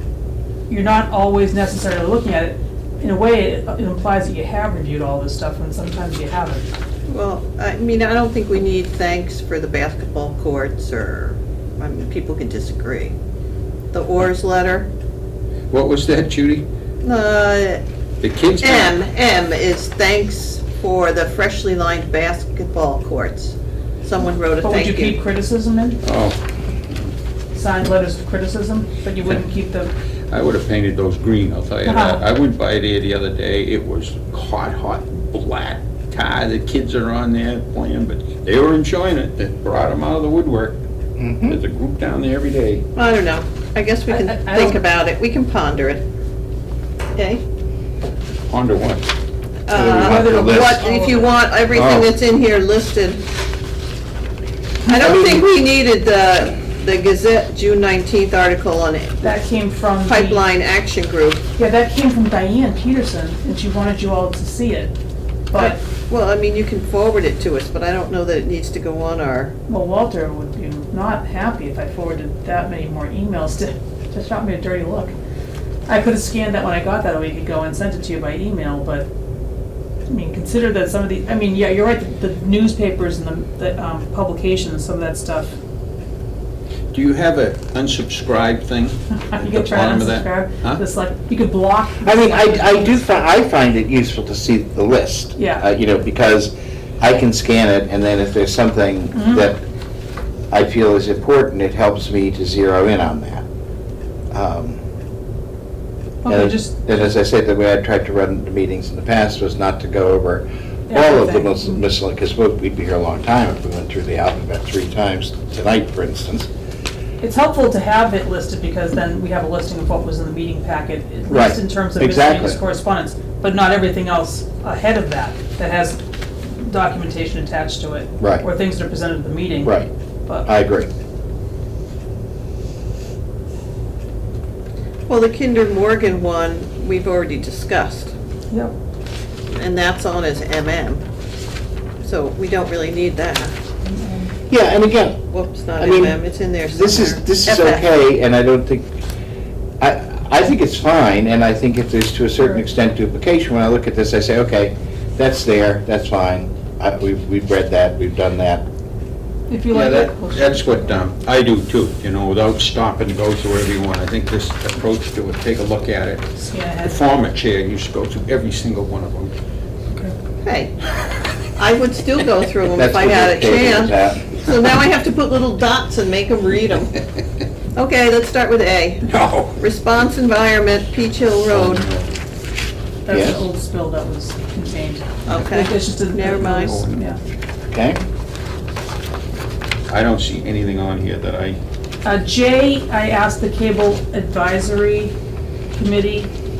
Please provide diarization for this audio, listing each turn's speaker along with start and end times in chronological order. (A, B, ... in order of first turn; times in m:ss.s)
0:00.7-0:06.7 A
0:07.1-0:13.1 B
0:13.9-0:14.9 B
0:15.7-0:16.6 C
0:17.0-0:17.8 B
0:18.2-0:19.0 C
0:18.6-0:25.2 B
0:24.6-0:26.0 A
0:26.0-0:26.4 C
0:27.5-0:29.9 A
0:30.3-0:40.8 C
0:31.8-0:32.2 A
0:41.2-0:41.6 D
0:41.4-0:42.8 C
0:42.9-0:46.0 B
0:44.1-0:44.8 A
0:47.1-0:47.4 B
0:48.5-0:49.0 C
0:49.7-0:53.2 B
0:49.7-0:50.8 D
0:49.7-0:51.4 A
0:51.7-0:52.1 D
0:54.8-0:59.4 B
0:54.9-0:55.5 D
0:59.2-1:00.4 A
1:00.0-1:01.4 B
1:01.6-1:04.9 A
1:05.5-1:05.8 A
1:05.5-1:09.5 B
1:09.7-1:15.1 A
1:15.9-1:19.1 A
1:20.1-1:25.6 A
1:26.9-1:30.8 C
1:29.1-1:33.0 A
1:32.0-1:39.6 D
1:35.4-1:35.6 A
1:39.1-1:39.5 A
1:40.5-1:43.4 D
1:44.3-1:44.8 D
1:46.2-1:46.7 A
1:46.3-1:56.5 D
1:50.9-1:51.8 A
1:57.2-2:10.5 A
2:01.3-2:02.6 D
2:08.2-2:08.4 D
2:09.6-2:09.9 D
2:10.4-2:10.9 D
2:15.1-2:18.1 B
2:19.5-2:21.0 B
2:22.0-2:23.5 B
2:23.8-2:24.3 A
2:24.5-2:25.2 D
2:25.3-2:27.9 B
2:25.8-2:28.9 D
2:29.8-2:38.6 D
2:39.5-2:41.0 A
2:39.7-2:46.3 C
2:46.4-2:47.0 A
2:46.8-2:49.3 C
2:50.4-2:50.7 B
2:51.6-2:57.0 B
2:52.7-2:54.3 D
2:57.7-3:01.9 B
2:59.0-2:59.6 C
3:01.5-3:02.1 C
3:03.0-3:07.2 A
3:03.1-3:03.4 D
3:05.3-3:06.8 B
3:06.3-3:07.0 C
3:07.7-3:08.0 D
3:09.9-3:11.6 C
3:12.0-3:15.1 A
3:15.8-3:16.3 A